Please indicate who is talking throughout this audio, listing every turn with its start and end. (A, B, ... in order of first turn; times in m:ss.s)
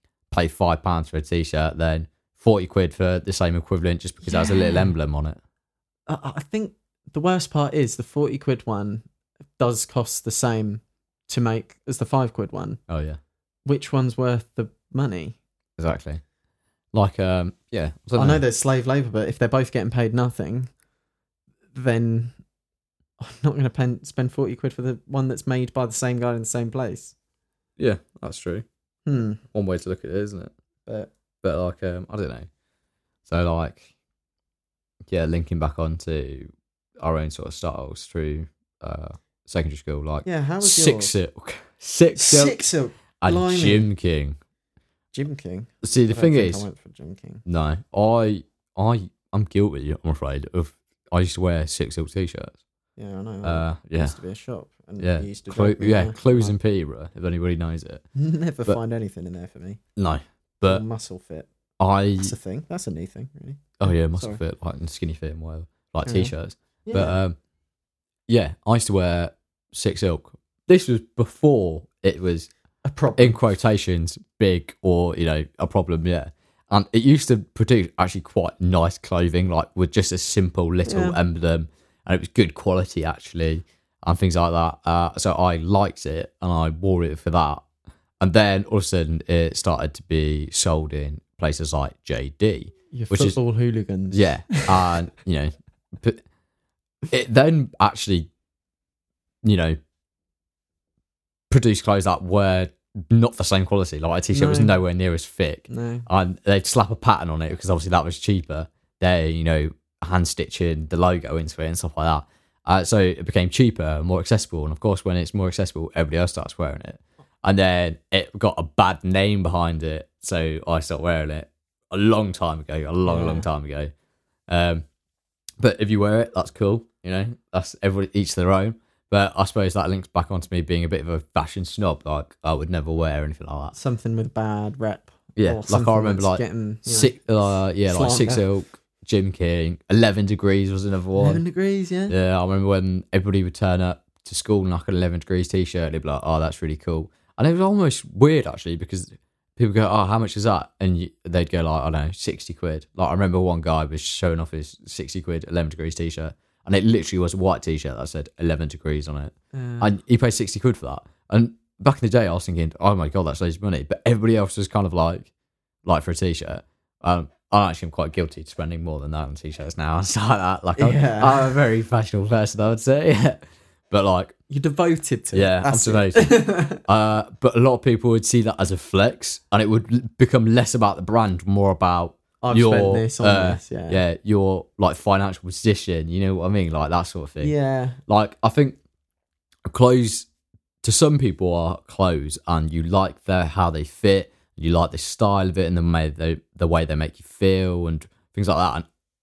0:00.3-0:05.4 A
0:04.3-0:04.9 B
0:06.1-0:09.0 B
0:09.6-0:12.8 B
0:12.9-0:13.2 A
0:13.6-0:15.4 B
0:15.8-0:16.2 A
0:16.9-0:18.4 A
0:18.2-0:20.7 B
0:21.7-0:22.4 B
0:23.2-0:27.2 B
0:27.8-0:28.6 A
0:29.1-0:29.4 B
0:29.5-0:30.5 A
0:31.4-0:32.5 A
0:33.3-0:33.9 A
0:35.1-0:42.6 A
0:40.2-0:41.2 B
0:42.2-0:43.9 B
0:43.2-0:44.4 A
0:45.1-0:47.4 B
0:45.8-0:46.6 A
0:47.5-0:52.6 A
0:53.0-0:56.5 B
0:53.4-0:54.2 A
0:55.0-0:58.0 A
0:58.2-0:59.8 B
1:00.0-1:00.8 A
1:00.6-1:01.5 B
1:01.8-1:02.4 A
1:02.2-1:04.4 B
1:03.8-1:07.4 A
1:06.0-1:06.3 B
1:06.8-1:07.2 B
1:08.3-1:12.5 A
1:12.8-1:13.4 B
1:13.2-1:27.6 A
1:20.8-1:21.2 B
1:28.2-1:33.4 A
1:32.9-1:34.8 B
1:34.1-1:36.2 A
1:37.1-1:38.3 A
1:39.4-1:39.8 A
1:41.5-2:03.9 A
1:44.3-1:44.8 B
1:45.7-1:46.1 B
2:03.0-2:03.5 B
2:04.5-2:04.8 A
2:05.6-2:13.8 A
2:13.8-2:17.2 B
2:15.4-2:21.4 A
2:17.9-2:18.4 B
2:21.2-2:22.2 B
2:22.1-2:45.3 A
2:39.5-2:39.9 B
2:45.8-2:54.4 A
2:50.8-2:51.6 B
2:54.5-2:56.8 B
2:55.3-3:07.5 A
3:02.4-3:04.0 B
3:07.4-3:08.0 B
3:08.1-3:08.8 A
3:09.7-3:10.3 A
3:10.8-3:18.9 A